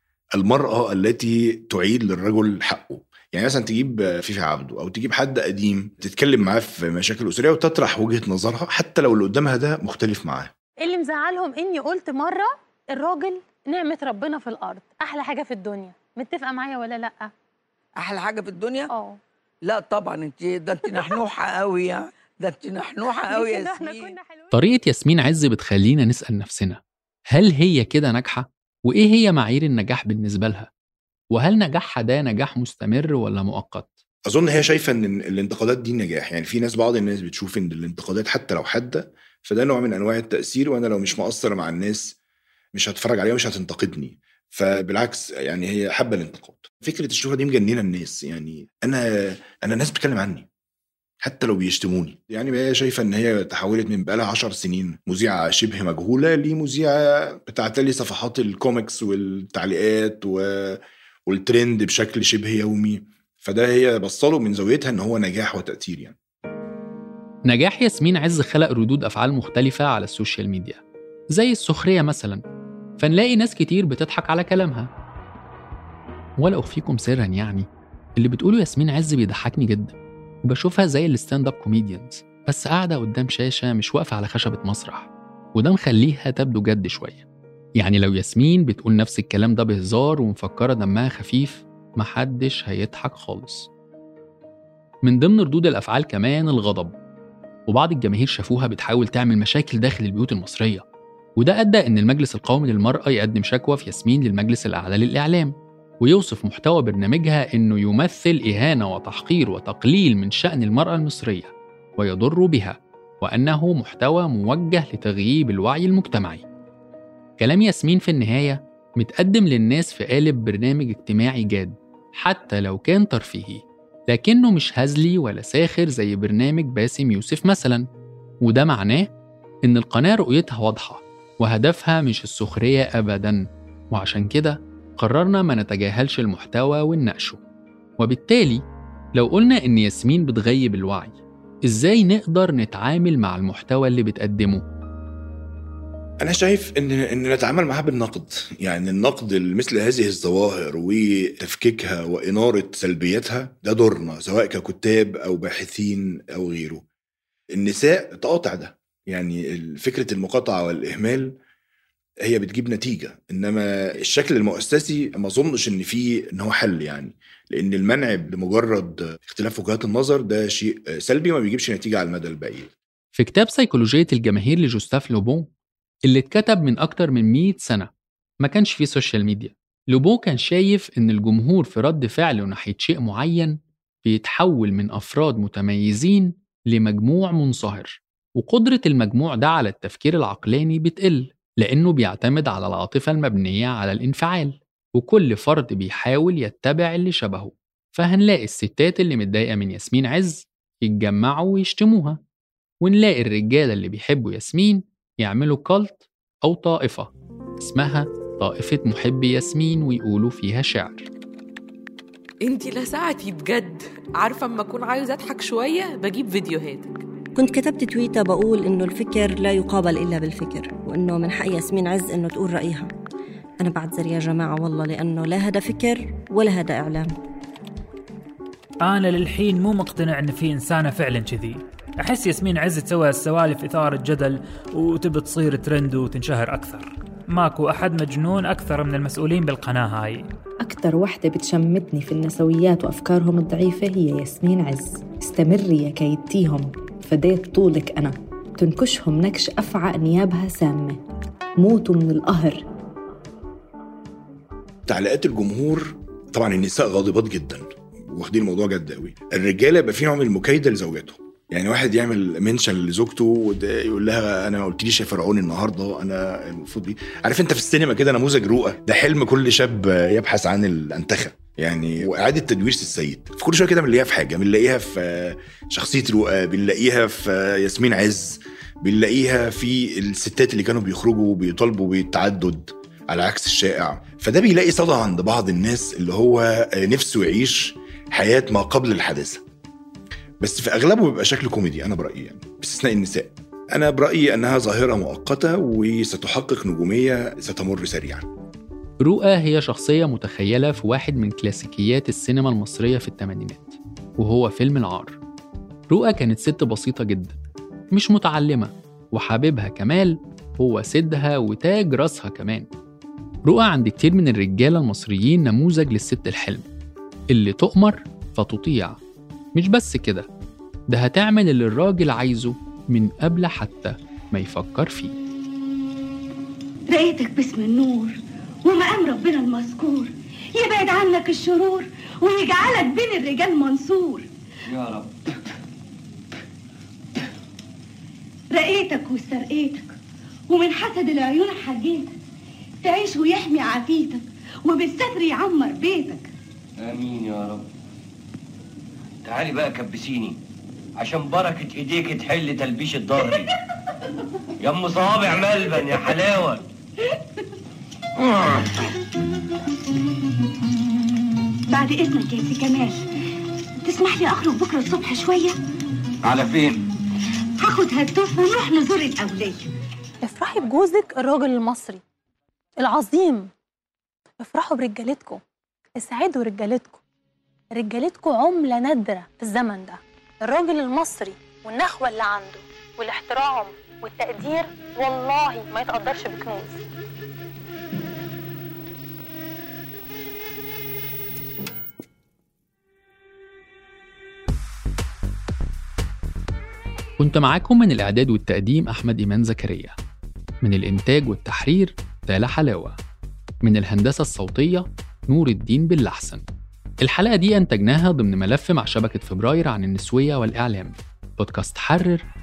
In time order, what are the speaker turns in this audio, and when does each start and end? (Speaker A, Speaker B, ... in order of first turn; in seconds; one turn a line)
Speaker A: 0.3-10.5
Speaker B: 10.8-17.3
Speaker C: 18.0-18.9
Speaker B: 18.9-19.2
Speaker C: 19.6-24.1
Speaker B: 23.2-24.5
Speaker D: 24.5-30.7
Speaker D: 31.3-34.0
Speaker A: 34.2-42.1
Speaker A: 42.7-50.5
Speaker A: 51.2-66.1
Speaker D: 67.5-70.8
Speaker D: 71.3-72.4
Speaker D: 73.0-74.9
Speaker D: 76.4-87.2
Speaker D: 87.8-93.7
Speaker D: 95.0-96.9
Speaker D: 97.7-100.8
Speaker D: 101.4-116.4
Speaker D: 117.4-127.8
Speaker D: 128.4-129.1
Speaker D: 129.7-137.4
Speaker D: 138.0-138.6
Speaker D: 139.2-144.6
Speaker A: 146.2-156.8
Speaker A: 157.5-161.3
Speaker A: 162.2-172.7
Speaker D: 173.2-175.5
Speaker D: 176.1-177.9
Speaker D: 178.4-202.2
Speaker D: 202.8-211.1
Speaker E: 212.4-217.0
Speaker F: 217.3-222.9
Speaker F: 223.6-227.1
Speaker G: 228.8-240.3
Speaker H: 240.6-251.0
Speaker H: 251.6-252.6
Speaker A: 254.9-289.4
Speaker A: 290.4-298.2
Speaker D: 299.0-305.2
Speaker D: 305.9-307.4
Speaker D: 307.9-312.7
Speaker D: 313.5-316.6
Speaker D: 317.3-319.0
Speaker D: 319.6-320.3
Speaker D: 320.9-325.1
Speaker I: 326.9-334.3
Speaker J: 334.7-335.1
Speaker I: 338.5-339.9
Speaker I: 340.5-342.1
Speaker I: 342.8-346.3
Speaker J: 346.8-347.7
Speaker J: 349.2-350.4
Speaker J: 351.0-353.5
Speaker J: 354.6-356.6
Speaker J: 358.3-358.6
Speaker I: 361.7-363.1
Speaker I: 363.8-365.6
Speaker J: 366.2-366.8
Speaker I: 367.6-369.7
Speaker B: 370.2-372.0
Speaker B: 372.8-373.5
Speaker B: 374.4-375.4
Speaker B: 375.9-377.0
Speaker B: 377.7-386.8
Speaker D: 397.2-399.9
Speaker D: 400.6-402.9
Speaker D: 403.6-406.4
Speaker D: 407.0-412.2